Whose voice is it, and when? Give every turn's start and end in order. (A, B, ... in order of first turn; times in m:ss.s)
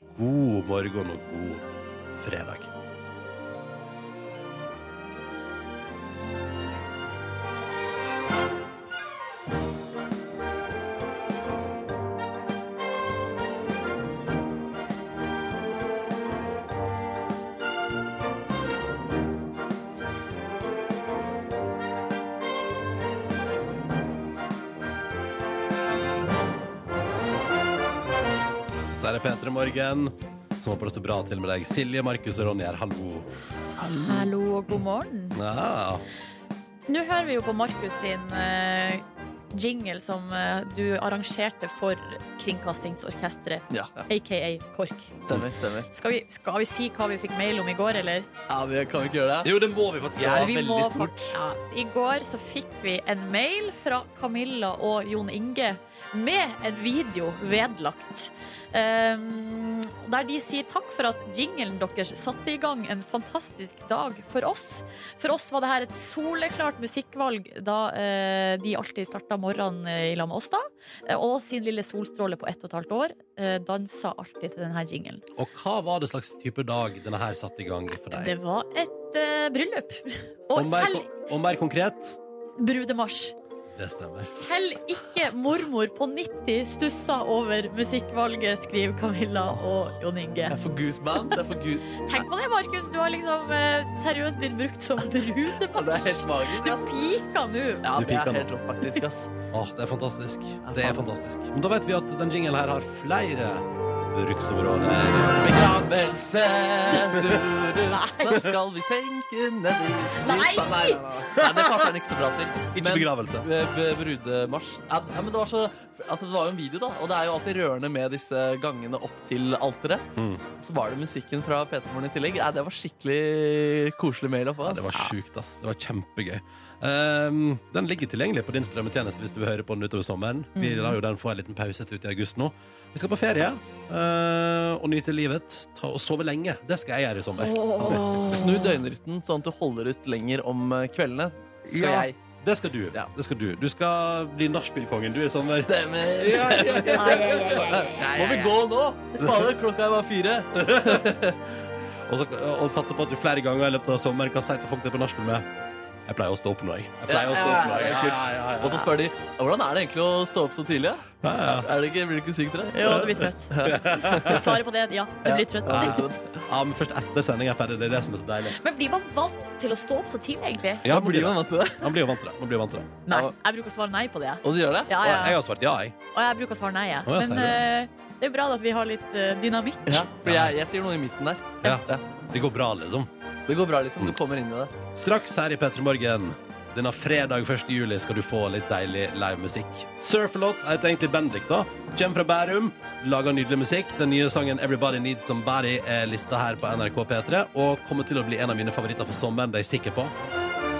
0:00.2-0:02.7 A
0:29.0-0:33.3 A
0:34.0-0:35.4 B
0:35.3-0:36.0 A
0:36.9-0:45.2 B
0:43.7-0:44.1 C
0:45.3-0:45.9 C
0:45.9-0:48.3 B
0:48.5-0:49.5 C
0:49.4-0:51.3 A
0:50.2-1:15.2 B
1:15.4-1:18.4 A
1:18.0-1:21.1 B
1:20.5-1:22.2 A
1:22.6-1:23.4 B
1:23.7-1:24.3 A
1:24.2-1:30.6 B
1:30.5-1:32.2 C
1:32.0-1:37.8 B
1:35.7-1:37.0 C
1:37.8-1:39.3 C
1:37.9-1:38.5 A
1:39.5-1:45.7 A
1:40.6-1:41.0 C
1:45.4-2:00.0 C
1:47.2-1:47.4 A
1:47.9-1:48.4 B
1:50.2-1:51.0 B
1:51.4-1:51.9 A
1:52.7-1:53.4 A
2:00.2-2:00.4 A
2:00.6-2:05.1 C
2:04.6-2:18.2 A
2:10.6-2:11.0 B
2:17.4-2:18.7 B
2:17.9-2:22.2 C
2:21.7-2:28.6 A
2:25.4-2:31.4 C
2:26.6-2:28.1 B
2:29.2-2:29.5 A
2:30.6-2:31.2 A
2:32.1-2:35.5 A
2:36.1-2:38.9 A
2:37.1-2:44.5 C
2:41.2-2:41.7 A
2:42.7-2:46.0 B
2:43.6-2:44.5 A
2:45.2-2:46.4 C
2:45.7-2:48.6 A
2:48.6-2:50.9 B
2:50.8-2:52.9 A
2:50.9-2:51.9 C
2:53.1-2:55.4 B
2:54.4-2:54.9 C
2:55.0-2:56.0 A
2:56.1-3:00.1 B
2:57.1-2:57.6 A
2:59.9-3:02.0 C
3:00.2-3:00.6 A
3:01.6-3:03.1 A
3:03.5-3:04.7 C
3:05.0-3:20.1 A